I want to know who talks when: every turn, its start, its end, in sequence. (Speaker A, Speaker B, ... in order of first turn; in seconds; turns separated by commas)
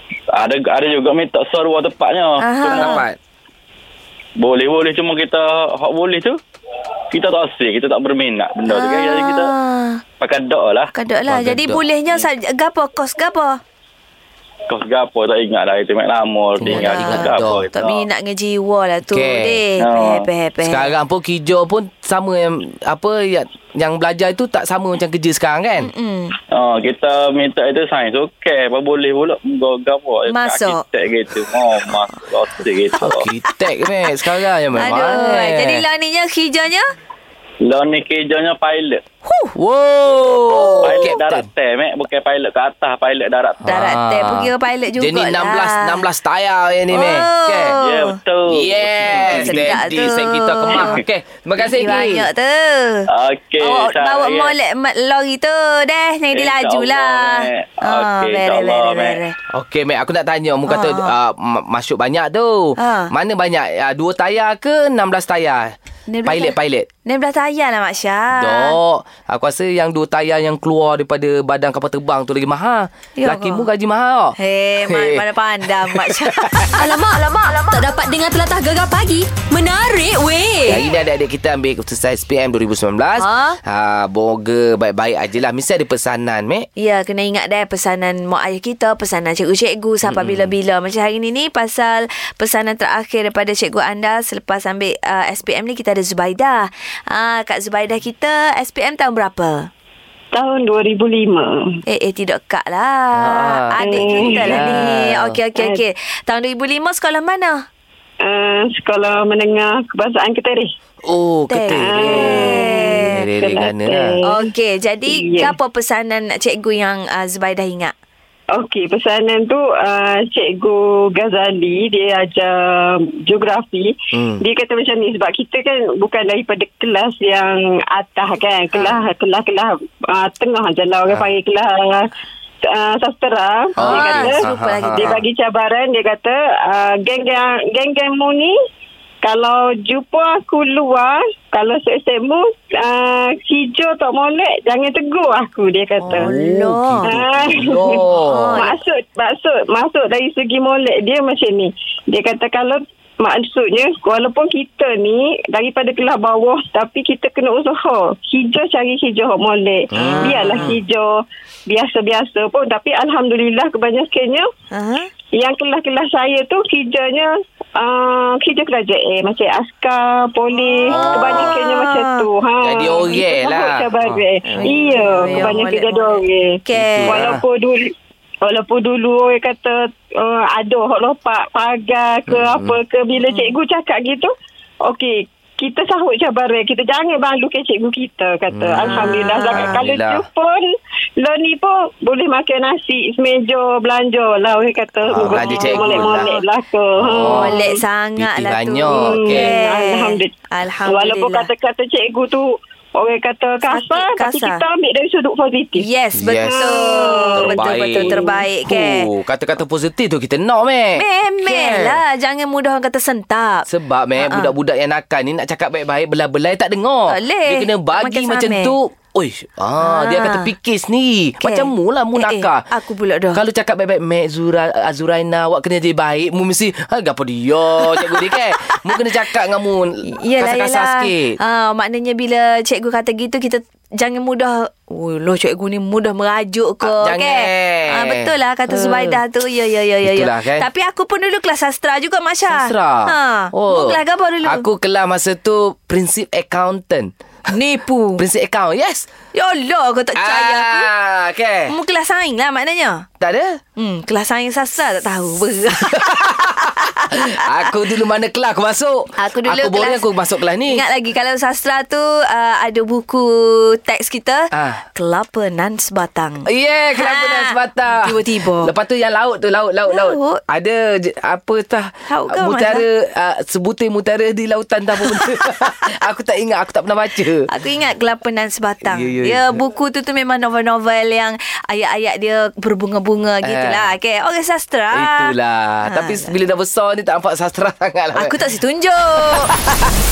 Speaker A: 0.3-3.0, Speaker B: 2.4-3.0, Speaker C: 2.8-3.2, Speaker A: 4.4-6.4, Speaker A: 7.1-9.5, Speaker B: 8.7-10.0, Speaker A: 10.2-10.9, Speaker B: 10.9-13.6, Speaker C: 11.3-11.8, Speaker A: 14.7-18.1, Speaker C: 16.6-17.7, Speaker B: 16.6-20.9, Speaker C: 19.1-19.6, Speaker A: 19.8-20.3, Speaker C: 20.6-25.9, Speaker B: 25.8-26.4, Speaker A: 26.5-33.3, Speaker B: 30.3-30.8, Speaker C: 33.0-35.8, Speaker B: 34.7-36.9, Speaker A: 37.6-39.0, Speaker B: 39.2-39.5, Speaker C: 39.6-41.5, Speaker A: 40.5-43.8, Speaker B: 40.6-41.1, Speaker C: 43.6-47.8, Speaker B: 43.6-46.0, Speaker B: 46.9-48.2, Speaker A: 47.8-50.0, Speaker C: 48.5-52.3, Speaker B: 49.2-51.0, Speaker B: 51.8-53.1, Speaker A: 53.1-54.5, Speaker B: 53.6-59.4, Speaker A: 56.3-59.2, Speaker C: 59.5-66.9, Speaker B: 60.7-61.1, Speaker B: 62.8-63.1, Speaker B: 66.1-68.8, Speaker C: 68.3-76.8, Speaker B: 73.2-73.7, Speaker B: 74.4-76.8, Speaker D: 76.8-80.8, Speaker C: 80.7-86.7, Speaker B: 83.2-83.6, Speaker B: 86.8-99.7, Speaker C: 90.0-90.5, Speaker E: 100.3-101.6, Speaker B: 101.9-107.6, Speaker C: 103.2-105.4, Speaker E: 103.8-104.9, Speaker E: 105.6-105.8, Speaker E: 108.2-110.7, Speaker C: 111.1-114.1, Speaker B: 111.5-113.2, Speaker E: 111.8-114.5, Speaker B: 114.3-117.9, Speaker E: 115.1-115.5, Speaker E: 118.5-132.1, Speaker C: 124.1-124.4, Speaker C: 131.1-131.3, Speaker E: 132.6-134.4, Speaker C: 133.8-135.2, Speaker B: 133.8-135.2, Speaker E: 135.0-138.6, Speaker E: 139.2-146.3, Speaker B: 146.0-147.2, Speaker C: 146.1-148.7, Speaker E: 147.1-161.1, Speaker B: 147.8-148.8, Speaker B: 159.9-160.7, Speaker C: 159.9-160.8, Speaker E: 161.7-164.5, Speaker B: 164.7-165.1, Speaker E: 165.4-177.9, Speaker B: 170.9-172.3, Speaker C: 170.9-171.5, Speaker C: 172.6-175.6, Speaker B: 174.5-177.3, Speaker C: 176.7-177.4, Speaker E: 178.4-184.3, Speaker C: 182.3-182.8, Speaker B: 183.2-183.6, Speaker E: 184.8-197.8, Speaker C: 188.5-190.2, Speaker B: 188.8-189.8, Speaker C: 195.1-196.3, Speaker B: 195.2-196.4, Speaker C: 197.0-197.6, Speaker B: 197.2-201.5, Speaker C: 198.2-199.6, Speaker E: 198.9-200.3, Speaker E: 200.8-205.8, Speaker B: 203.7-204.6, Speaker B: 205.8-209.1, Speaker C: 206.2-212.0, Speaker E: 206.4-208.4, Speaker B: 211.0-213.7, Speaker C: 213.7-222.6, Speaker B: 214.2-214.5, Speaker B: 217.1-218.7, Speaker B: 219.8-220.5, Speaker B: 221.4-223.4, Speaker C: 223.3-231.4, Speaker B: 227.9-228.2, Speaker B: 230.1-244.7, Speaker C: 236.8-239.2, Speaker C: 240.0-240.7, Speaker C: 242.5-247.1, Speaker B: 247.5-248.2, Speaker C: 248.2-249.1, Speaker B: 249.3-250.9, Speaker C: 250.2-251.7, Speaker B: 251.7-253.1, Speaker C: 253.2-253.6, Speaker B: 253.8-257.7, Speaker C: 255.8-260.8, Speaker B: 259.2-260.1, Speaker B: 260.7-268.7, Speaker C: 264.5-264.8, Speaker C: 266.4-277.5, Speaker B: 269.9-270.4, Speaker B: 272.1-272.9, Speaker B: 277.5-285.3, Speaker C: 278.9-279.6, Speaker C: 283.4-283.9, Speaker C: 284.9-288.4, Speaker B: 285.9-286.3, Speaker B: 288.2-289.5, Speaker C: 289.6-289.9